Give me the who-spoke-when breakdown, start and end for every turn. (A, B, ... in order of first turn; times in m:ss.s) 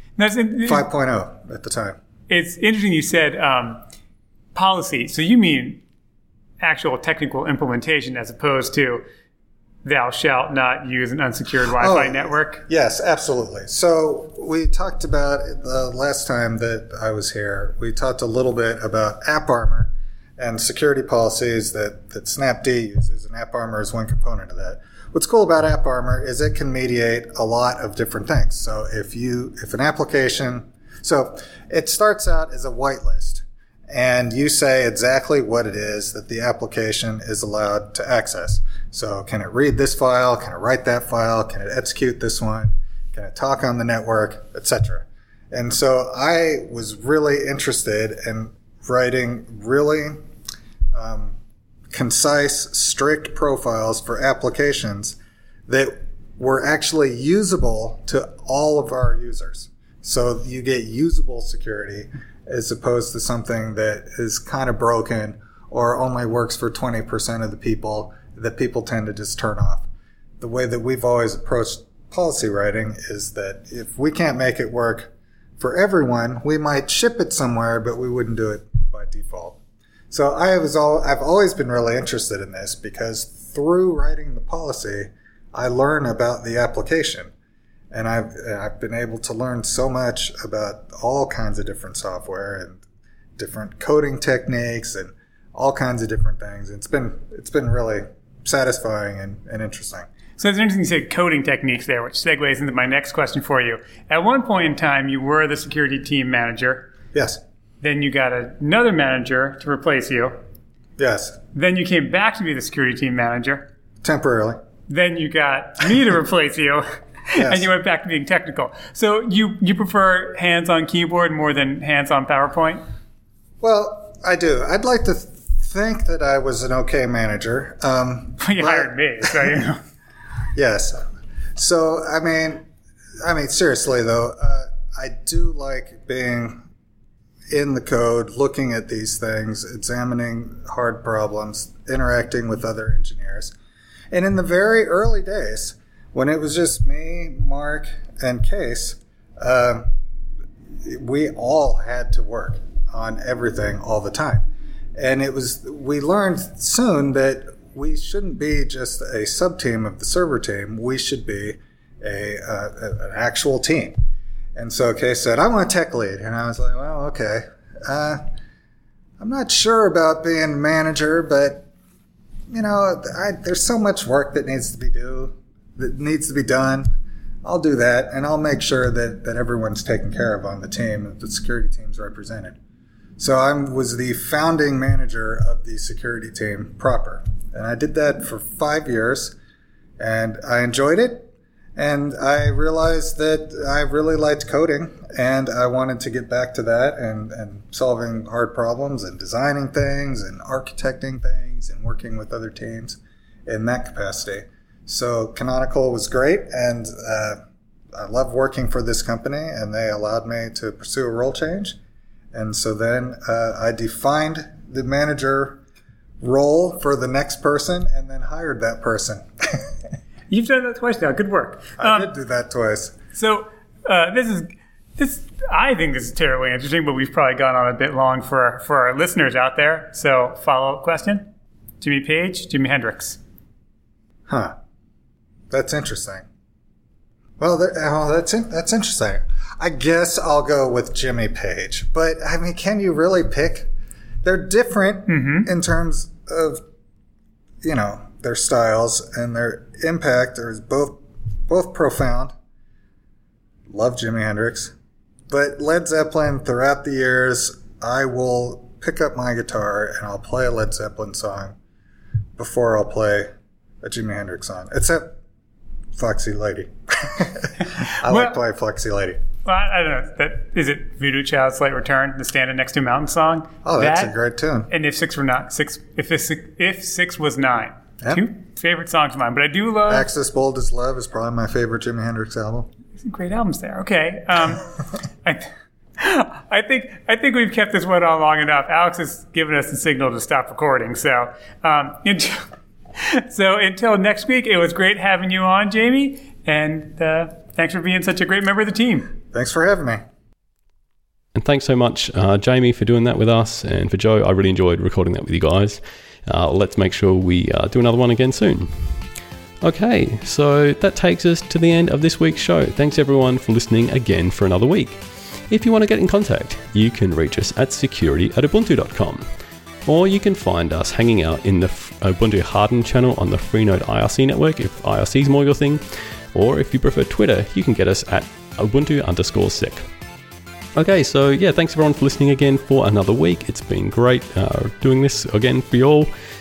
0:00.2-0:00.8 A
0:00.6-0:02.0 B
0:02.3-0:03.8 A
0:04.5-0:05.8 A
0:06.6-0:09.0 A
0:09.8-0:12.6 A
0:11.7-0:50.2 B
0:50.9-0:51.4 B
0:51.9-1:09.9 B
1:10.4-1:19.6 B
1:20.1-1:27.3 B
1:27.9-1:32.8 B
1:33.4-1:40.1 B
1:40.4-1:46.9 A
1:47.1-1:47.4 B
1:47.8-1:50.4 A
1:51.0-1:51.4 B
1:51.5-1:53.7 A
1:54.0-1:54.6 B
1:54.9-2:02.8 A
1:57.4-1:57.7 B
2:03.6-2:09.6 B
2:08.4-2:09.8 A
2:10.5-2:11.0 B
2:11.6-2:12.6 B
2:13.2-2:16.6 B
2:17.5-2:23.5 B
2:24.1-2:29.9 B
2:30.8-2:44.0 B
2:44.5-2:48.2 B
2:49.2-2:51.7 B
2:52.5-2:56.9 B
2:57.4-3:02.6 B
3:03.2-3:09.3 B
3:10.0-3:27.4 B
3:27.9-3:31.8 B
3:32.3-3:35.6 B
3:36.2-3:39.7 B
3:40.3-3:42.1 A
3:41.8-3:43.0 B
3:43.1-3:51.3 A
3:51.8-3:53.2 A
3:54.3-3:54.5 B
3:55.5-3:56.2 B
3:57.4-4:03.7 B
4:04.2-4:06.6 B
4:05.1-4:05.5 A
4:07.6-4:12.3 B
4:13.7-4:14.7 B
4:15.3-4:21.5 B
4:22.4-4:23.3 B
4:23.8-4:25.2 B
4:26.0-4:29.2 B
4:28.1-4:28.3 A
4:29.4-4:34.1 A
4:33.6-4:34.7 B
4:34.7-4:40.1 A
4:39.9-4:42.7 B
4:43.0-4:44.7 A
4:45.2-4:59.1 A
4:59.3-5:00.0 B
5:01.3-5:08.7 C
5:09.6-5:19.3 C
5:19.8-5:29.9 C
5:30.8-5:36.1 C